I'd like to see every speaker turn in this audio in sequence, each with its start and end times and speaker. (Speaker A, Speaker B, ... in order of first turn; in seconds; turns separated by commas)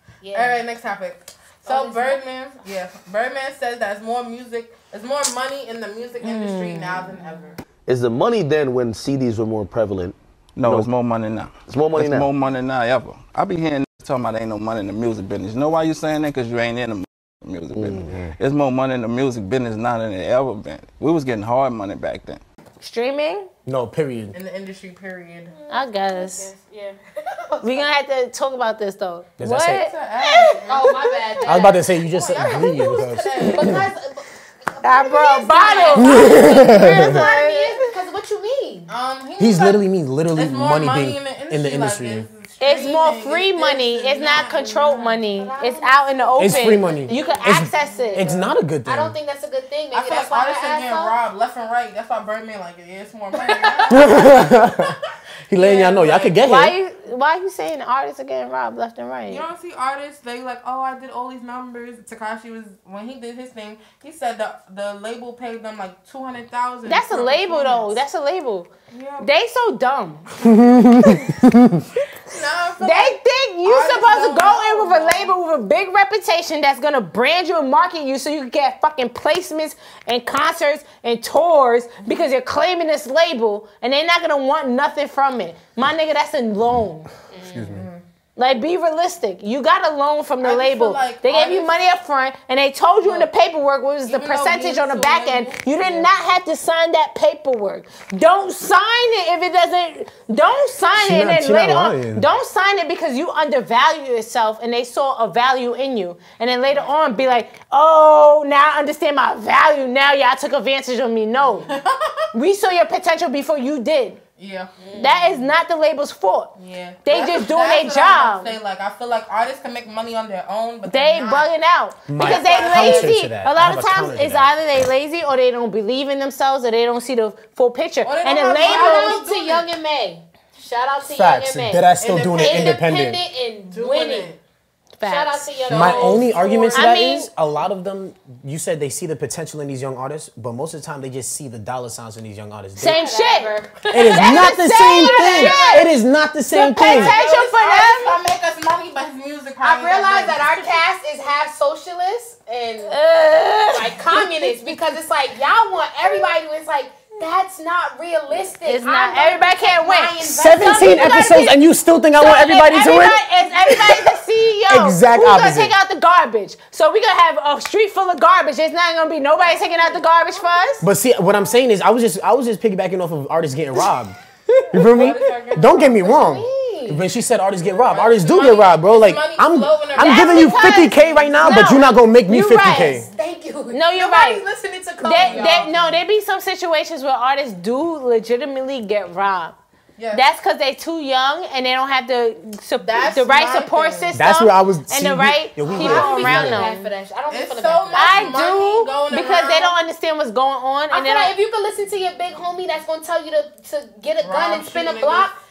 Speaker A: 0.2-0.6, Speaker B: 0.3-7.6, Speaker A: 1.6-2.3, Speaker C: 6.2-7.4, Speaker D: 7.9-10.2, Speaker E: 10.6-22.4, Speaker D: 11.7-12.2, Speaker C: 22.8-23.5, Speaker F: 23.7-24.4, Speaker B: 24.3-25.5, Speaker A: 25.5-27.9, Speaker C: 25.7-26.5, Speaker C: 27.6-30.6, Speaker F: 29.4-29.9, Speaker B: 29.8-33.8, Speaker A: 30.7-38.9, Speaker F: 31.4-33.9, Speaker C: 34.8-37.9, Speaker B: 35.5-36.2, Speaker F: 36.0-37.2, Speaker B: 38.9-39.8, Speaker F: 39.4-42.3, Speaker B: 40.3-45.2, Speaker C: 42.6-48.3, Speaker A: 45.0-48.1, Speaker F: 46.4-49.2, Speaker B: 48.0-48.5, Speaker A: 48.8-51.2, Speaker B: 49.9-55.0, Speaker A: 53.5-54.0, Speaker F: 53.9-55.0, Speaker F: 55.5-56.8, Speaker B: 55.5-56.4, Speaker C: 56.4-59.5, Speaker B: 59.3-68.0, Speaker C: 66.9-70.3, Speaker B: 68.9-69.3, Speaker F: 70.5-71.8, Speaker C: 71.0-71.3, Speaker B: 72.3-75.3, Speaker C: 72.8-87.1, Speaker A: 87.3-87.8, Speaker F: 87.5-87.8, Speaker B: 87.7-88.0, Speaker C: 88.4-111.8, Speaker B: 90.4-91.8, Speaker B: 93.0-93.3, Speaker B: 94.1-96.1, Speaker F: 101.0-102.3, Speaker B: 106.7-106.9, Speaker B: 111.5-112.2, Speaker C: 112.3-114.2, Speaker B: 114.4-114.7, Speaker A: 114.8-115.5, Speaker C: 114.9-116.5, Speaker B: 116.5-121.5, Speaker C: 117.0-118.6, Speaker C: 120.9-129.2, Speaker F: 122.1-124.5, Speaker A: 122.2-122.7, Speaker B: 122.2-123.1, Speaker B: 128.0-129.7, Speaker A: 128.6-134.4, Speaker F: 131.0-133.2, Speaker B: 132.0-132.9, Speaker B: 133.7-134.4, Speaker C: 135.0-135.5, Speaker A: 135.0-137.0, Speaker B: 135.6-136.3, Speaker F: 135.7-143.0, Speaker C: 136.7-137.3, Speaker C: 142.8-145.8, Speaker A: 142.8-145.9, Speaker F: 143.9-147.2, Speaker B: 145.3-145.8, Speaker C: 146.5-148.2, Speaker B: 146.8-150.7, Speaker A: 149.6-152.9, Speaker C: 152.9-154.5, Speaker A: 153.7-161.6, Speaker C: 158.7-160.2, Speaker F: 160.2-164.1, Speaker C: 162.2-170.9, Speaker F: 164.7-165.8, Speaker B: 169.6-170.0, Speaker F: 170.8-174.2, Speaker B: 174.7-176.2, Speaker F: 174.7-183.1, Speaker A: 175.8-177.0, Speaker B: 177.8-181.1, Speaker A: 180.0-181.9, Speaker C: 180.0-183.1, Speaker A: 182.5-185.9, Speaker C: 183.7-184.4, Speaker B: 185.0-186.0, Speaker C: 185.0-189.6, Speaker B: 190.0-190.3, Speaker C: 190.1-196.9, Speaker B: 192.8-194.1, Speaker F: 194.1-196.7, Speaker A: 195.6-198.4, Speaker B: 197.3-199.8, Speaker C: 197.9-201.3, Speaker A: 200.9-205.4, Speaker B: 204.2-205.3